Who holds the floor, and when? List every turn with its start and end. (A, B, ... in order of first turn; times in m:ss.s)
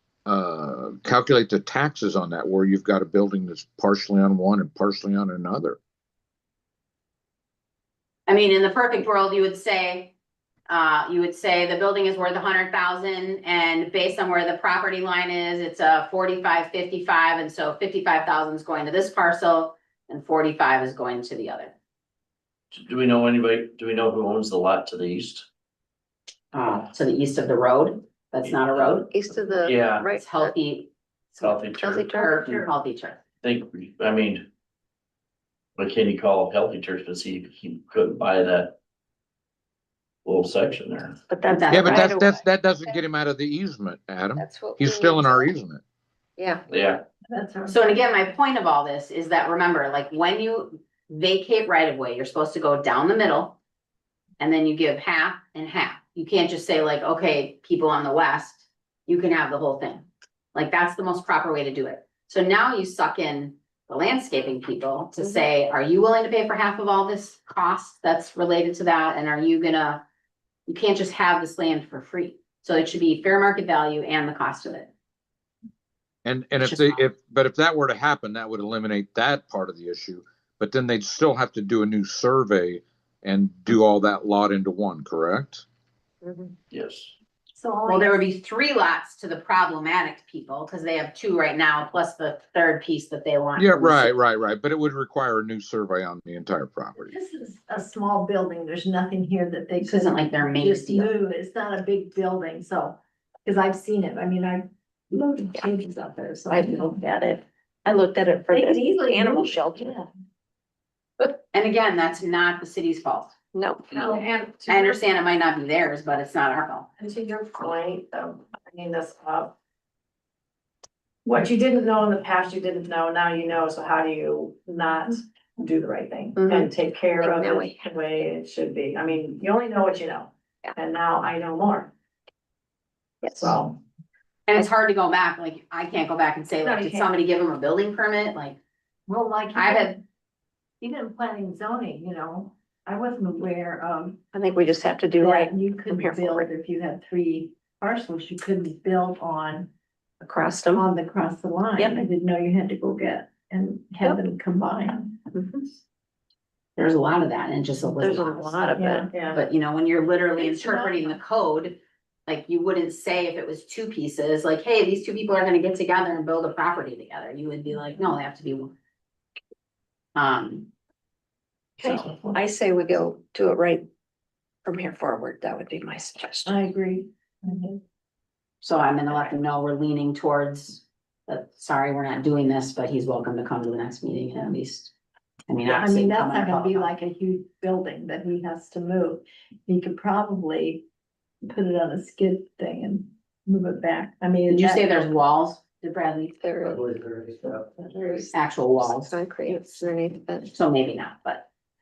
0:00.3-0:05.8 A
0:08.3-0:10.1 B
0:10.7-0:21.8 B
0:22.7-0:25.5 C
0:26.5-0:29.1 B
0:28.4-0:29.0 C
0:29.1-0:30.5 D
0:29.6-0:30.1 C
0:30.1-0:33.2 B
0:31.4-0:32.1 C
0:31.8-0:32.4 D
0:32.4-0:32.7 E
0:33.4-0:34.5 C
0:35.8-0:38.8 C
0:40.2-0:41.2 C
0:41.3-0:42.4 D
0:41.5-0:42.1 B
0:41.7-0:45.8 A
0:44.4-0:45.5 D
0:46.4-0:46.6 D
0:46.7-0:47.0 C
0:47.3-0:47.8 E
0:47.7-0:53.6 B
0:54.4-1:10.0 B
1:10.7-1:14.9 B
1:16.2-1:25.6 A
1:26.2-1:26.5 D
1:26.7-1:27.1 C
1:27.6-1:28.2 E
1:27.9-1:34.2 B
1:33.6-1:37.2 A
1:37.0-1:47.0 E
1:39.8-1:41.1 B
1:46.5-1:50.1 D
1:48.5-1:50.0 E
1:51.5-1:53.3 B
1:53.5-1:54.2 D
1:53.9-1:55.0 E
1:54.7-1:56.9 B
1:57.0-1:59.5 E
2:01.2-2:11.9 E
2:06.4-2:07.9 D
2:13.2-2:13.8 E
2:13.2-2:13.6 D
2:14.5-2:18.6 B
2:16.6-2:17.1 E
2:19.1-2:20.0 E
2:19.6-2:20.0 B
2:20.8-2:24.2 E
2:24.3-2:26.5 D
2:25.2-2:29.7 E
2:30.2-2:30.9 D
2:30.7-2:35.2 E
2:31.8-2:32.0 D
2:35.3-2:35.7 D
2:36.8-2:38.6 B
2:37.9-2:39.1 D
2:38.8-2:39.4 E
2:39.3-2:48.8 B
2:40.4-2:41.2 E
2:50.2-2:50.7 B
2:51.8-2:53.9 D
2:54.6-2:56.6 D
2:56.4-2:57.8 E
2:58.6-3:04.9 B
3:05.5-3:06.9 B
3:05.6-3:10.8 E
3:11.4-3:14.9 E
3:14.5-3:16.4 B
3:16.4-3:17.0 D
3:17.7-3:20.5 D
3:18.3-3:19.2 B
3:20.5-3:21.5 B